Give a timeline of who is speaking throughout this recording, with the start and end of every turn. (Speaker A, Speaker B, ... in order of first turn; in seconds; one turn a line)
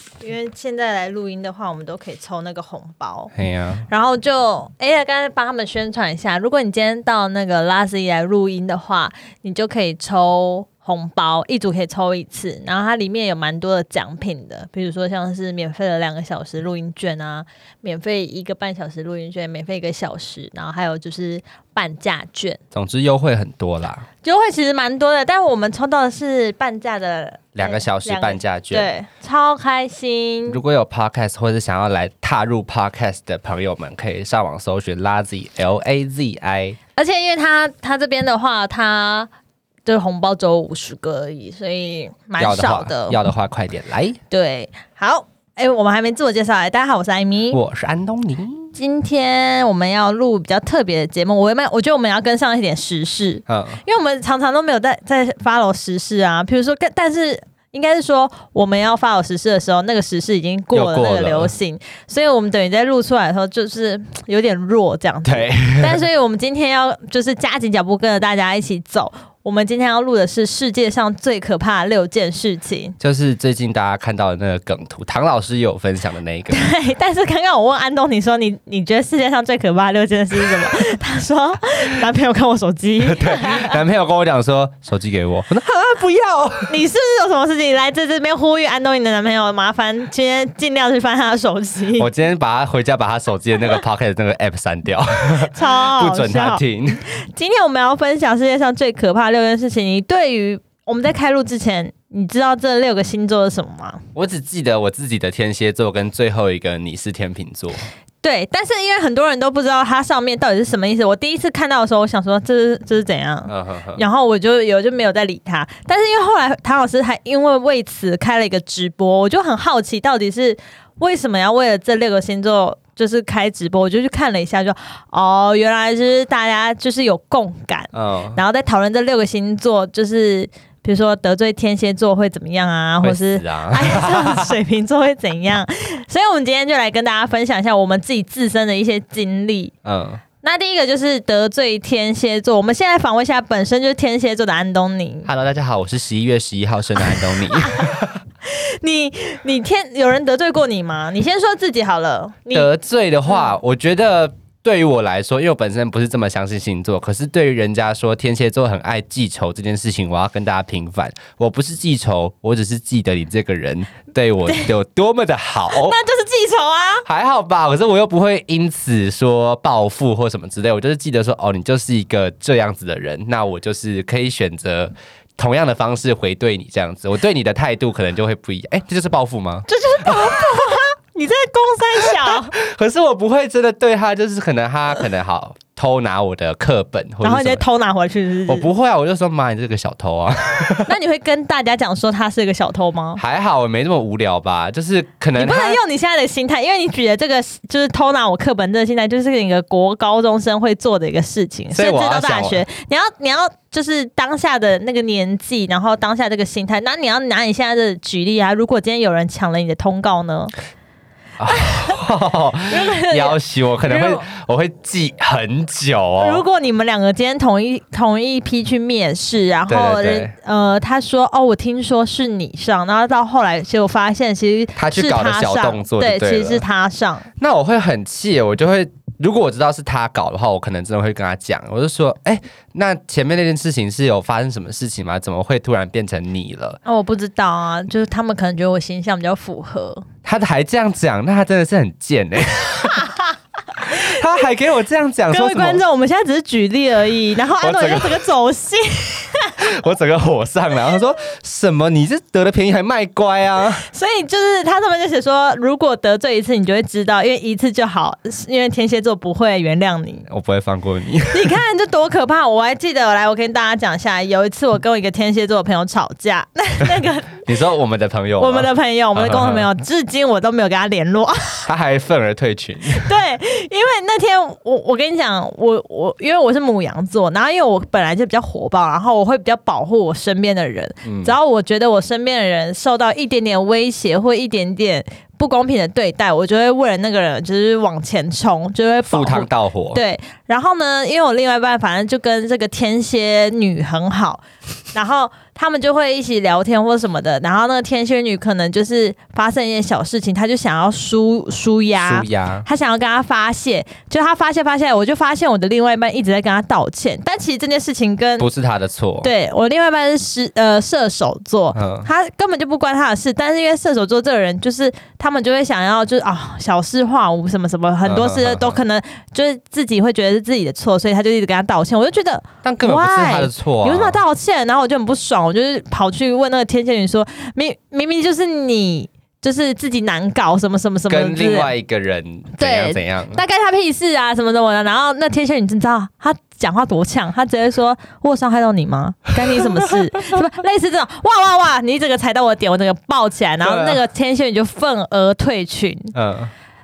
Speaker A: 0.2-3.3
Speaker B: 3.3-3.9
Speaker A: 3.9-22.6
Speaker B: 22.7-24.1
Speaker A: 24.2-30.6
Speaker B: 27.5-28.9
Speaker B: 30.5-36.8
Speaker A: 36.9-39.3
Speaker A: 39.8-43.2
Speaker B: 42.4-44.2
Speaker A: 44.3-47.6
Speaker B: 47.5-48.7
Speaker A: 48.7-73.0
Speaker B: 53.5-53.8
Speaker B: 60.7-61.5
Speaker B: 65.2-66.0
Speaker B: 73.0-76.6
Speaker A: 76.5-83.8
Speaker B: 83.0-86.8
Speaker A: 86.7-92.1
Speaker B: 92.0-97.1
Speaker A: 95.4-104.0
Speaker B: 104.1-107.8
Speaker A: 108.2-139.7
Speaker B: 113.5-114.0
Speaker B: 127.9-128.4
Speaker B: 133.0-134.5
Speaker B: 139.8-140.2
Speaker A: 140.4-145.3
Speaker B: 145.2-148.2
Speaker A: 147.0-152.7
Speaker B: 152.5-166.0
Speaker A: 165.7-167.1
Speaker B: 167.1-180.8
Speaker A: 179.7-182.5
Speaker B: 182.0-187.6
Speaker A: 187.2-188.7
Speaker B: 188.5-190.9
Speaker A: 190.8-193.2
Speaker B: 193.2-195.8
Speaker A: 195.3-210.5
Speaker B: 201.7-202.6
Speaker B: 211.4-216.4
Speaker A: 211.5-212.0
Speaker A: 212.7-214.3
Speaker A: 216.2-227.3
Speaker B: 219.7-220.3
Speaker B: 224.8-226.6
Speaker B: 227.4-236.8
Speaker A: 236.8-240.0
Speaker B: 240.2-243.1
Speaker A: 242.9-243.3
Speaker B: 243.8-245.8
Speaker A: 245.3-249.7
Speaker B: 247.6-248.2
Speaker B: 249.6-253.8
Speaker A: 253.8-260.3
Speaker B: 260.3-261.6
Speaker A: 261.3-267.5
Speaker B: 267.4-269.7
Speaker A: 268.4-271.7
Speaker B: 271.6-273.1
Speaker A: 273.0-308.5
Speaker B: 281.0-281.3
Speaker B: 289.1-290.0
Speaker B: 302.0-302.6
Speaker B: 308.4-309.3
Speaker A: 309.2-331.7
Speaker B: 311.7-312.1
Speaker B: 318.0-318.8
Speaker B: 322.6-324.2
Speaker B: 331.1-333.4
Speaker A: 332.6-346.1
Speaker B: 339.4-340.0
Speaker B: 343.6-344.0
Speaker B: 346.1-346.5